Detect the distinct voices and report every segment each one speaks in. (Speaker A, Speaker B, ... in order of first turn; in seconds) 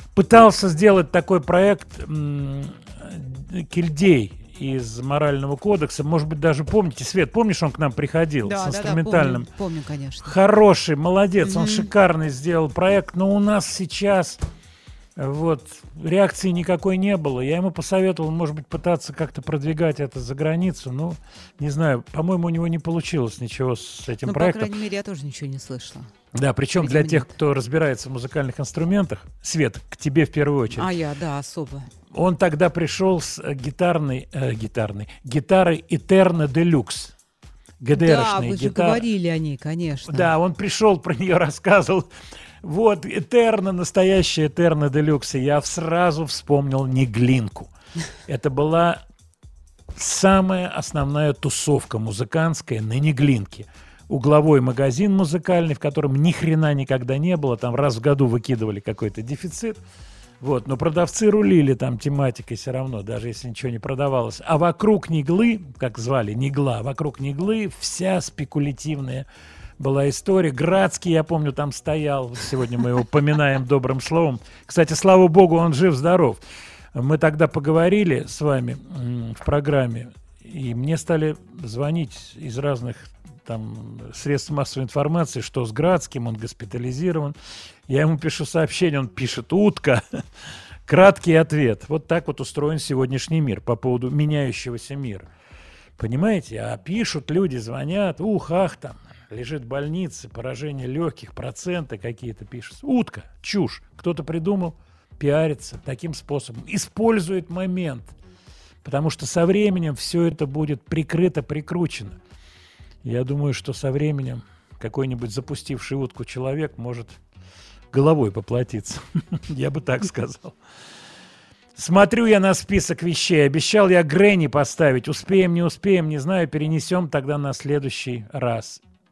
Speaker A: 0.1-9.5, 10.2-14.4, 15.2-24.8, 26.3-30.9, 32.1-37.1, 37.8-39.0, 40.1-42.1, 42.6-47.7, 48.3-49.0, 49.9-59.8, 60.4-69.2, 69.8-76.4, 76.9-87.3, 87.9-90.2, 90.9-95.3, 96.0-108.1, 108.8-112.2, 113.0-117.2, 117.9-120.6, 121.7-128.8
Speaker B: 8.4-10.3, 11.4-11.9, 24.2-26.1, 26.8-27.3, 30.7-31.9, 37.9-40.3